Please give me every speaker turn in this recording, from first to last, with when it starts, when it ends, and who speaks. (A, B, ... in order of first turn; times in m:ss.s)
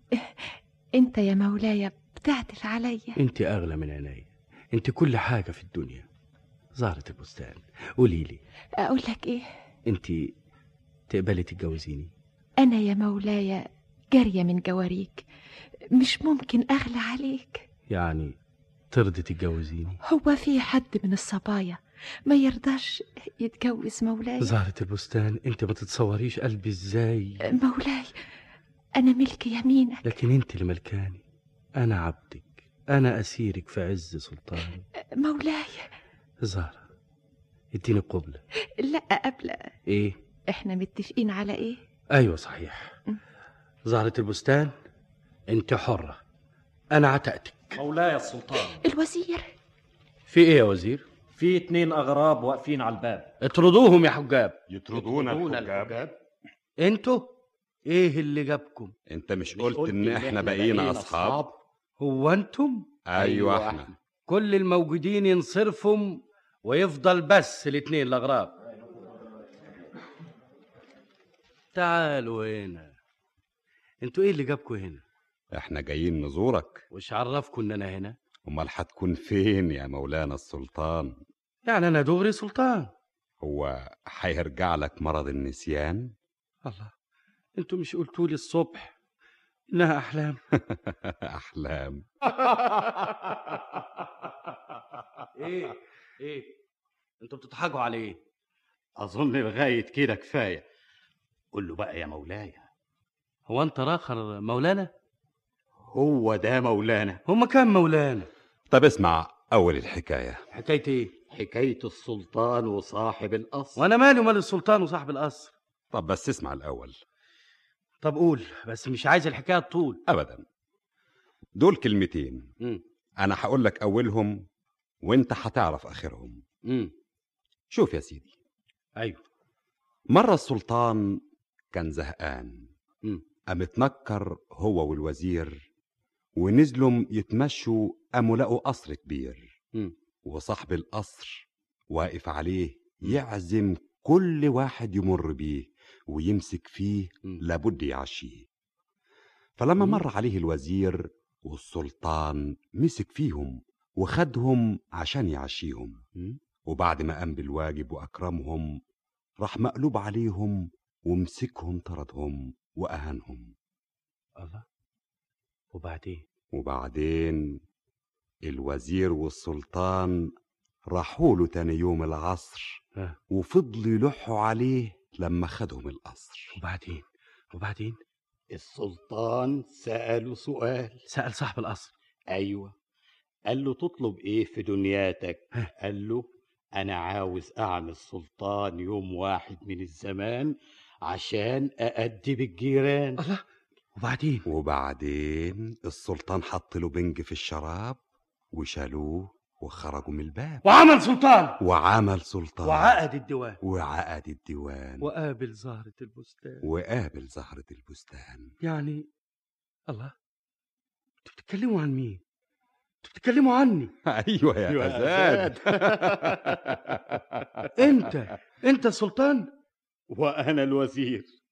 0:00.2-0:03.2 A
0:03.2-0:06.1 B
0:06.8-0:08.4 B
0:08.8-0:09.5 A
0:09.9-0:10.3 B
0:11.1-0:12.1 B
0:12.6-0:15.2 A
0:16.0-0:17.7 A
0:17.9-0:18.4 B
0:18.9-0:20.0 B
0:20.1-0:24.6 A
0:24.4-0:27.4 B
0:27.5-0:28.1 A
0:29.0-0:30.2 A
0:30.0-0:31.2 B
0:31.8-0:34.9 B
0:35.2-0:35.9 A
0:36.4-0:36.8 B
0:37.7-0:38.4 B
0:38.8-0:39.7 A
0:39.9-0:40.2 B
0:40.5-0:41.8 A
0:42.1-0:42.9 B
0:43.9-0:44.7 B
0:45.5-0:46.2 B
0:46.9-0:47.8 B
0:47.7-0:48.8 C
0:48.8-0:49.5 A
0:50.3-0:51.0 B
0:51.4-0:53.3 C
0:53.4-0:54.6 B
0:54.7-0:55.9 D
0:54.9-0:56.1 E
0:56.8-0:57.3 B
0:57.9-0:58.9 B
0:59.1-1:01.5 D
0:59.5-1:01.5 E
1:02.0-1:03.6 B
1:03.1-1:03.9 D
1:03.2-1:03.8 E
1:04.3-1:08.6 B
1:11.7-1:12.9 B
1:14.0-1:15.0 B
1:15.5-1:16.8 D
1:16.9-1:18.2 B
1:18.5-1:21.2 D
1:21.7-1:22.9 B
1:23.4-1:26.1 D
1:26.6-1:26.9 B
1:27.6-1:28.9 B
1:29.7-1:30.4 B
1:30.6-1:32.1 D
1:35.4-1:36.5 B
1:37.2-1:38.2 B
1:39.0-1:40.6 E
1:41.5-1:42.7 E
1:43.5-1:44.9 B
1:45.8-1:47.2 E
1:47.3-1:48.3 B
1:48.7-1:50.4 D
1:50.5-1:51.1 B
1:51.3-1:53.8 E
1:53.8-1:55.5 B
1:55.9-1:57.0 D
1:58.0-2:00.0 B
2:00.1-2:00.4 D
2:01.6-2:02.5 D
2:03.2-2:04.4 D
2:05.0-2:06.4 D
2:06.6-2:06.9 B
2:07.7-2:08.3 D
2:10.1-2:11.2 D
2:11.7-2:12.7 D
2:13.5-2:15.7 D
2:16.4-2:19.6 D
2:20.2-2:28.5 D
2:29.6-2:36.0 D
2:29.8-2:30.0 B
2:36.7-2:38.8 D
2:39.4-2:43.5 D
2:44.4-2:44.6 B
2:45.7-2:46.2 B
2:46.5-2:47.6 D
2:48.4-2:50.3 D
2:50.9-2:52.8 D
2:53.3-2:56.5 D
2:56.6-2:58.0 B
2:58.5-3:01.0 E
3:01.1-3:01.9 B
3:02.3-3:02.7 E
3:03.5-3:13.2 E
3:14.0-3:14.4 B
3:14.5-3:18.0 D
3:18.5-3:20.6 D
3:20.6-3:21.6 B
3:21.6-3:23.0 D
3:22.6-3:23.6 B
3:23.6-3:25.1 D
3:25.0-3:26.6 B
3:26.6-3:28.5 D
3:28.6-3:29.1 B
3:31.2-3:32.2 B
3:33.0-3:33.9 B
3:34.1-3:38.0 D
3:34.7-3:36.6 E
3:37.8-3:39.5 B
3:40.1-3:41.3 E